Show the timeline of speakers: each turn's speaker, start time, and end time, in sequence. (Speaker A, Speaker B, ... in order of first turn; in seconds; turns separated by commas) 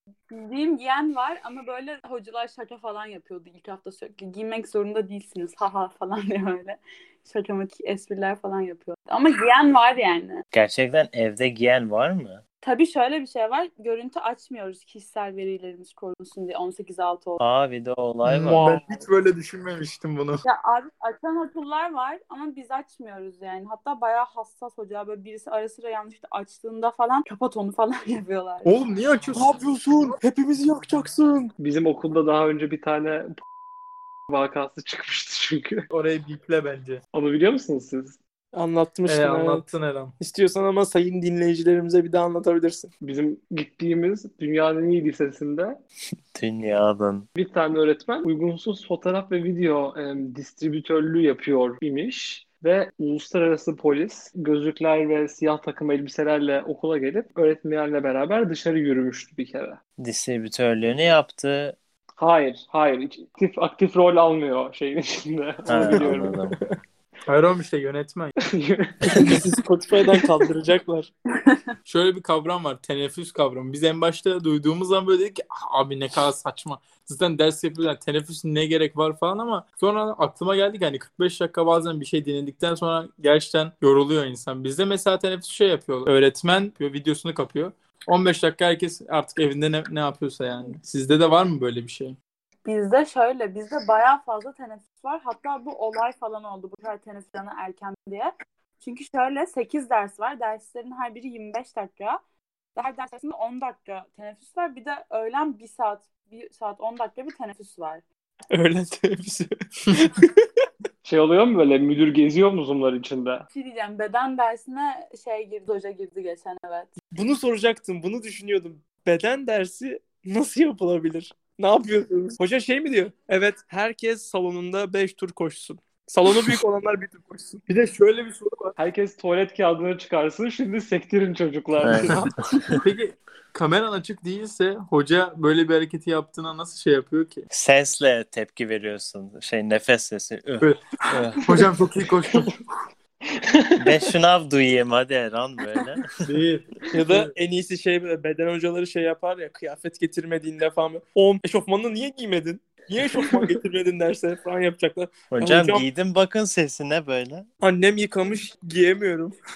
Speaker A: 0.3-10.4, Speaker B: 10.5-12.4, Speaker A: 12.6-17.4, Speaker B: 17.4-18.8, Speaker C: 18.2-20.4, Speaker A: 20.4-28.7, Speaker C: 28.6-29.5, Speaker D: 29.3-31.5, Speaker E: 31.6-33.3, Speaker E: 34.3-35.8, Speaker C: 35.9-37.0, Speaker E: 37.1-38.2, Speaker D: 38.5-39.7, Speaker C: 39.1-40.1, Speaker D: 40.2-42.9, Speaker E: 43.0-45.7, Speaker B: 46.4-47.3, Speaker E: 47.4-59.8, Speaker B: 60.0-61.8, Speaker E: 62.2-66.3, Speaker B: 65.7-66.6, Speaker D: 65.8-66.5, Speaker C: 67.3-68.3, Speaker D: 69.1-71.1, Speaker A: 71.4-71.7, Speaker C: 71.8-92.2, Speaker A: 92.7-102.2, Speaker A: 102.8-108.0, Speaker D: 108.5-110.3, Speaker E: 111.0-113.4, Speaker A: 113.5-116.9, Speaker D: 117.1-127.6, Speaker C: 127.7-128.8, Speaker E: 128.8-131.9, Speaker B: 131.8-132.3, Speaker D: 132.0-132.3, Speaker C: 132.0-137.5, Speaker B: 137.5-141.6, Speaker C: 141.4-142.5, Speaker B: 143.8-146.0, Speaker C: 146.2-147.3, Speaker D: 146.9-155.9, Speaker B: 155.3-157.5, Speaker D: 157.6-159.3